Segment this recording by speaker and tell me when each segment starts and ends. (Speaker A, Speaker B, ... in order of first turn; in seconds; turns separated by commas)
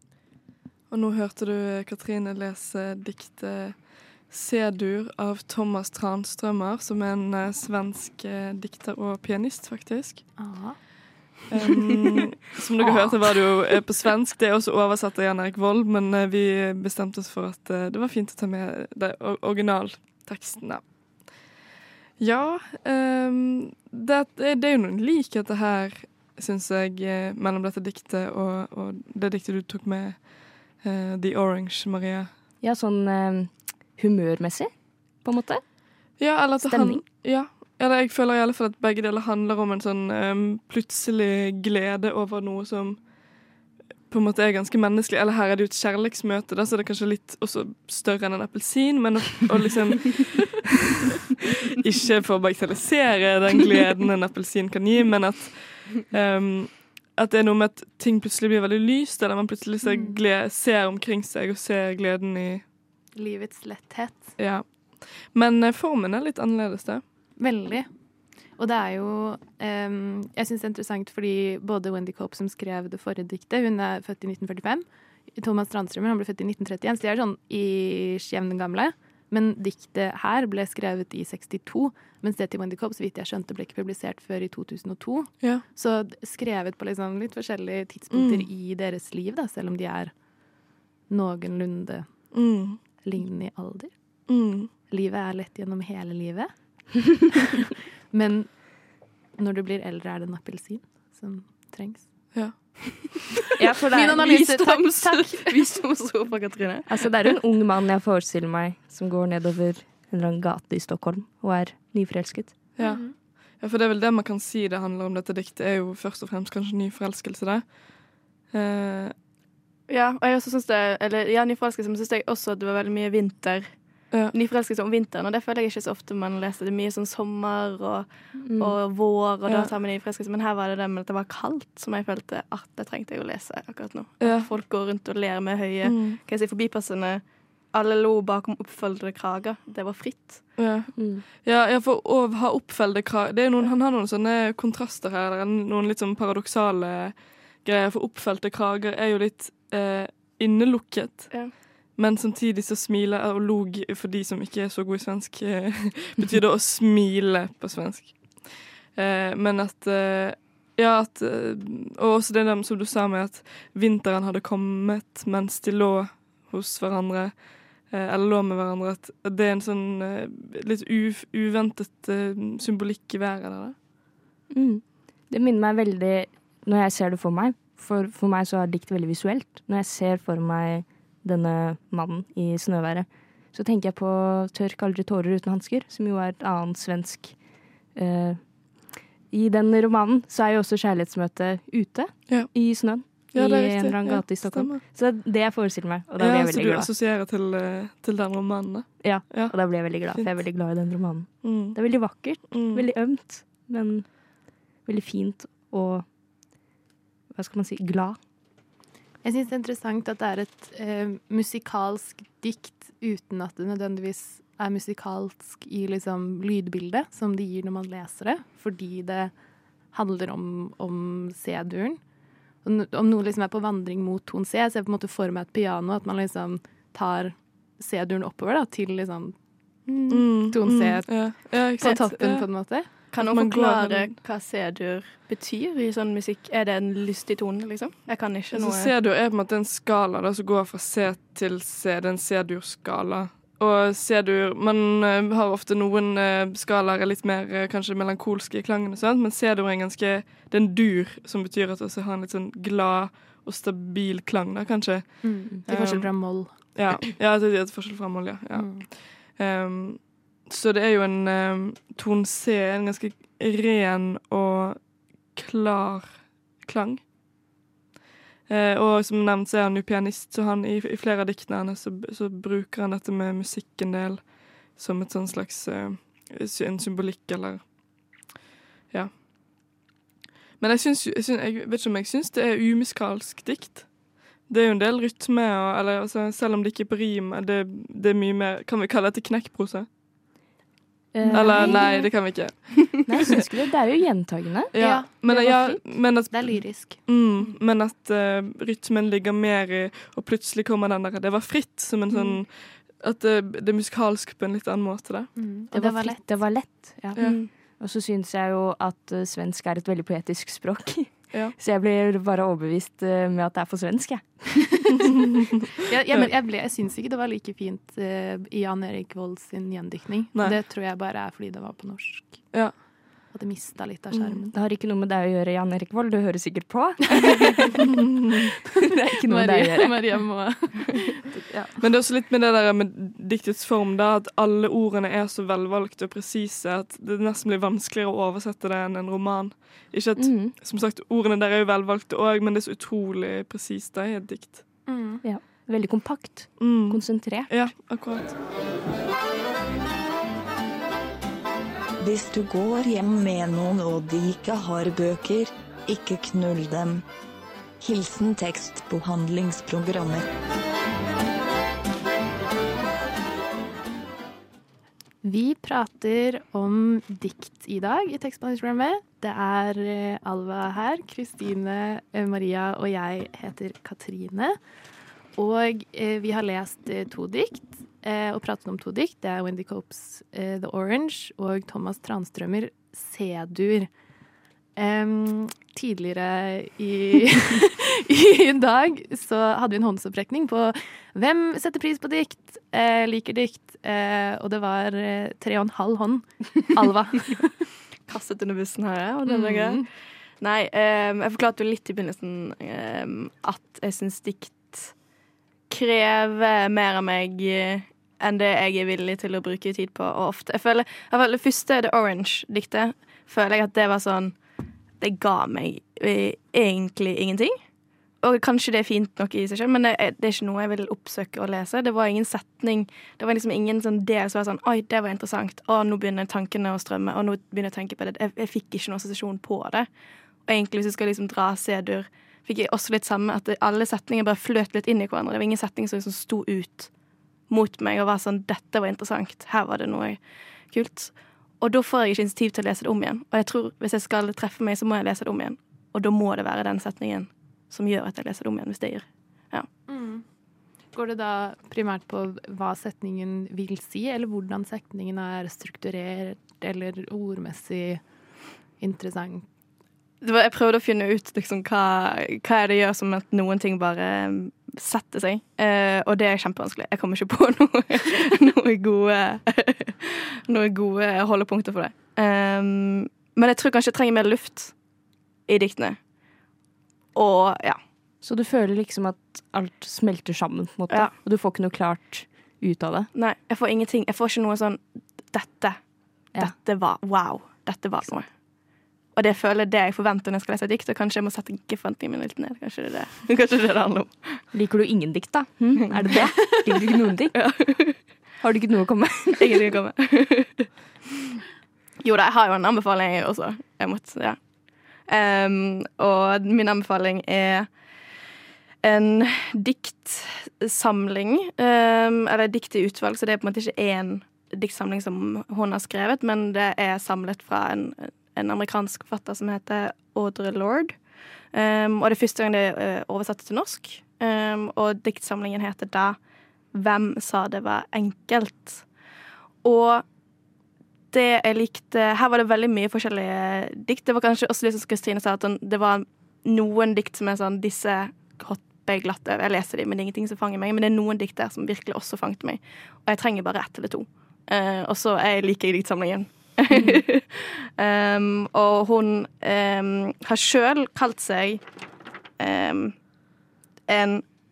Speaker A: 0.9-10.3, Speaker B: 10.4-11.0, Speaker A: 11.5-21.4, Speaker A: 22.2-32.3, Speaker C: 32.6-37.0, Speaker A: 36.2-43.5, Speaker A: 44.1-50.7, Speaker A: 51.7-62.6, Speaker B: 59.8-60.2, Speaker B: 63.1-64.4, Speaker A: 64.4-67.0, Speaker B: 67.4-67.9, Speaker B: 68.4-90.1, Speaker A: 88.1-88.5, Speaker B: 91.1-92.4, Speaker A: 92.3-92.8, Speaker B: 93.0-94.3, Speaker A: 94.3-94.7, Speaker B: 94.9-97.3, Speaker B: 98.1-102.6, Speaker A: 102.3-103.0, Speaker C: 103.6-104.9, Speaker B: 103.9-105.5, Speaker D: 104.1-107.3, Speaker C: 106.9-112.6, Speaker A: 112.8-119.1, Speaker B: 112.8-113.1, Speaker D: 119.9-140.6, Speaker C: 128.4-128.8, Speaker A: 134.2-134.5, Speaker A: 135.8-136.2, Speaker A: 140.6-173.8, Speaker C: 140.9-141.2, Speaker C: 174.5-196.9, Speaker A: 192.3-194.8, Speaker A: 196.2-200.8, Speaker C: 199.0-206.1, Speaker A: 201.4-202.9, Speaker C: 207.3-208.2, Speaker B: 209.2-219.3, Speaker B: 219.9-222.0, Speaker B: 222.6-232.9, Speaker A: 230.1-234.2, Speaker D: 233.1-238.9, Speaker A: 238.5-267.1, Speaker B: 255.2-256.5, Speaker B: 258.6-258.9, Speaker A: 268.5-278.2, Speaker A: 278.9-279.7, Speaker A: 280.6-289.9, Speaker C: 291.1-296.3, Speaker B: 291.2-292.1, Speaker A: 291.3-293.3, Speaker A: 294.7-305.3, Speaker B: 294.8-297.1, Speaker B: 305.4-306.5, Speaker C: 305.7-315.1, Speaker D: 307.2-307.5, Speaker B: 315.9-324.5, Speaker A: 322.5-322.8, Speaker C: 324.1-327.7, Speaker C: 328.9-330.3, Speaker B: 329.2-331.8, Speaker A: 331.8-344.8, Speaker C: 340.2-340.5, Speaker B: 344.9-345.2, Speaker C: 345.2-347.7, Speaker A: 346.6-348.4, Speaker E: 352.0-357.0, Speaker E: 357.8-360.2, Speaker B: 365.2-374.6, Speaker B: 375.4-383.9, Speaker B: 384.8-397.6, Speaker D: 398.1-399.9, Speaker B: 399.3-399.9, Speaker D: 400.4-404.9, Speaker D: 405.7-414.4, Speaker D: 415.0-417.6, Speaker D: 418.2-429.9, Speaker D: 430.4-436.9, Speaker D: 437.5-449.7, Speaker B: 449.9-450.2, Speaker B: 450.9-458.0, Speaker B: 458.8-459.4, Speaker D: 460.2-474.8, Speaker D: 475.5-476.0, Speaker D: 477.1-477.8, Speaker C: 478.2-483.1, Speaker D: 483.1-494.4, Speaker C: 494.5-499.7, Speaker D: 496.0-498.0, Speaker D: 499.4-500.7, Speaker D: 502.0-507.8, Speaker D: 508.8-521.0, Speaker D: 521.5-526.2, Speaker D: 526.7-528.9, Speaker D: 529.6-530.0, Speaker D: 531.1-551.6, Speaker C: 546.7-547.0, Speaker D: 552.4-553.0, Speaker D: 553.9-554.2